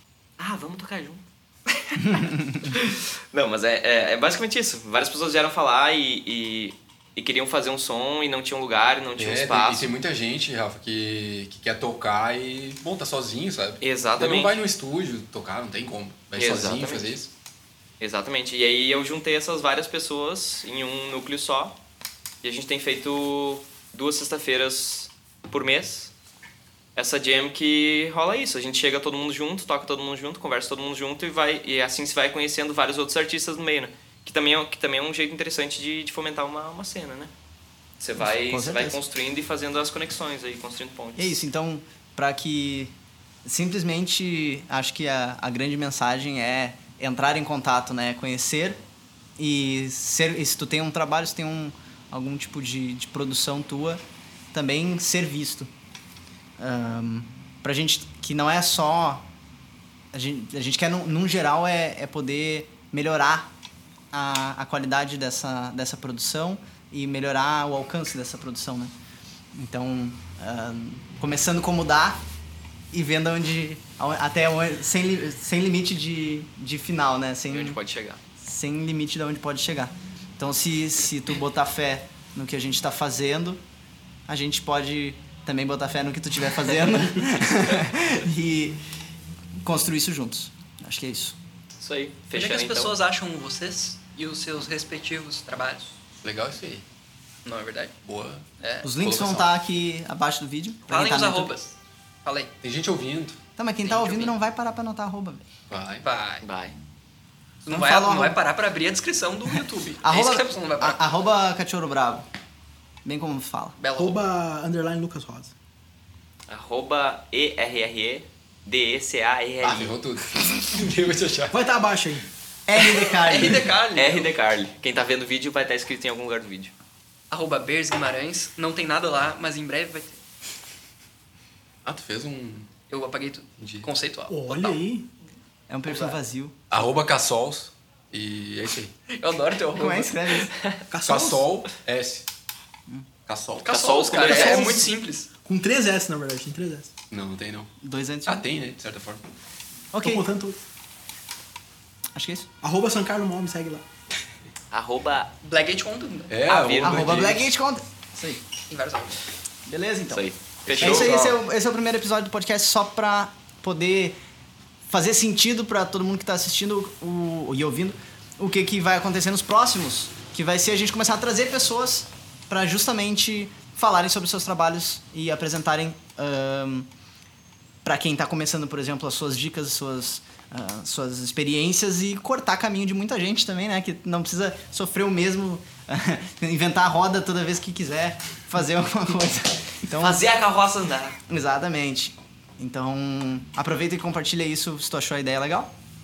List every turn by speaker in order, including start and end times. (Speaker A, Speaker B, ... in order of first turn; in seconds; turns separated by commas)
Speaker A: 0.4-1.2, Speaker A: 1.8-9.9, Speaker B: 2.0-2.7, Speaker C: 9.2-17.3, Speaker A: 13.8-14.6, Speaker A: 16.4-17.1, Speaker A: 18.0-21.7, Speaker A: 22.4-26.1, Speaker A: 26.9-37.3, Speaker A: 38.0-41.4, Speaker B: 38.2-39.0, Speaker B: 41.1-42.9, Speaker B: 43.4-48.8, Speaker B: 49.4-54.0, Speaker B: 54.5-55.7, Speaker B: 56.6-59.2, Speaker B: 60.1-63.5, Speaker B: 64.1-68.9, Speaker B: 69.5-72.2, Speaker B: 72.9-77.8, Speaker A: 77.5-78.2, Speaker B: 78.4-83.6, Speaker B: 84.3-88.8, Speaker B: 89.6-91.4, Speaker A: 91.8-92.9, Speaker D: 92.3-95.9, Speaker C: 96.2-96.8, Speaker D: 97.4-97.9, Speaker C: 98.0-98.4, Speaker D: 98.6-98.9, Speaker B: 98.8-101.5, Speaker C: 99.0-99.5, Speaker D: 100.9-102.5, Speaker C: 102.6-103.4, Speaker B: 103.6-105.4, Speaker D: 103.8-104.3, Speaker C: 105.7-106.0, Speaker D: 106.0-106.4, Speaker A: 106.4-106.8, Speaker D: 107.6-111.0, Speaker B: 107.7-108.4, Speaker B: 110.0-112.2, Speaker B: 113.0-113.8, Speaker D: 113.8-114.2, Speaker E: 114.0-115.5, Speaker A: 116.5-120.0, Speaker C: 119.6-121.6, Speaker E: 121.5-122.2, Speaker B: 122.7-123.7, Speaker D: 123.2-124.3, Speaker A: 123.4-126.7, Speaker D: 127.3-130.2, Speaker C: 131.8-132.7, Speaker D: 132.9-134.8, Speaker C: 133.6-133.9, Speaker E: 134.3-135.1, Speaker B: 135.7-136.6, Speaker C: 136.7-138.9, Speaker D: 139.1-140.5, Speaker B: 139.7-140.5, Speaker E: 140.9-141.5, Speaker C: 141.1-142.2, Speaker C: 143.3-143.8, Speaker D: 143.6-145.3, Speaker A: 143.7-144.8, Speaker E: 144.3-144.8, Speaker E: 145.4-146.9, Speaker C: 147.1-147.7, Speaker B: 147.8-148.4, Speaker C: 148.3-149.2, Speaker B: 149.9-150.3, Speaker E: 150.0-150.6, Speaker B: 152.1-152.5, Speaker E: 152.6-153.8, Speaker A: 154.7-155.3, Speaker D: 155.4-156.4, Speaker C: 156.3-157.5, Speaker A: 156.5-157.1, Speaker B: 156.8-158.4, Speaker D: 158.7-159.2, Speaker B: 159.7-160.2, Speaker A: 160.1-161.3, Speaker C: 160.7-161.2, Speaker B: 160.8-164.2, Speaker B: 164.9-176.9, Speaker B: 177.8-190.2, Speaker A: 190.0-191.2, Speaker B: 191.3-195.7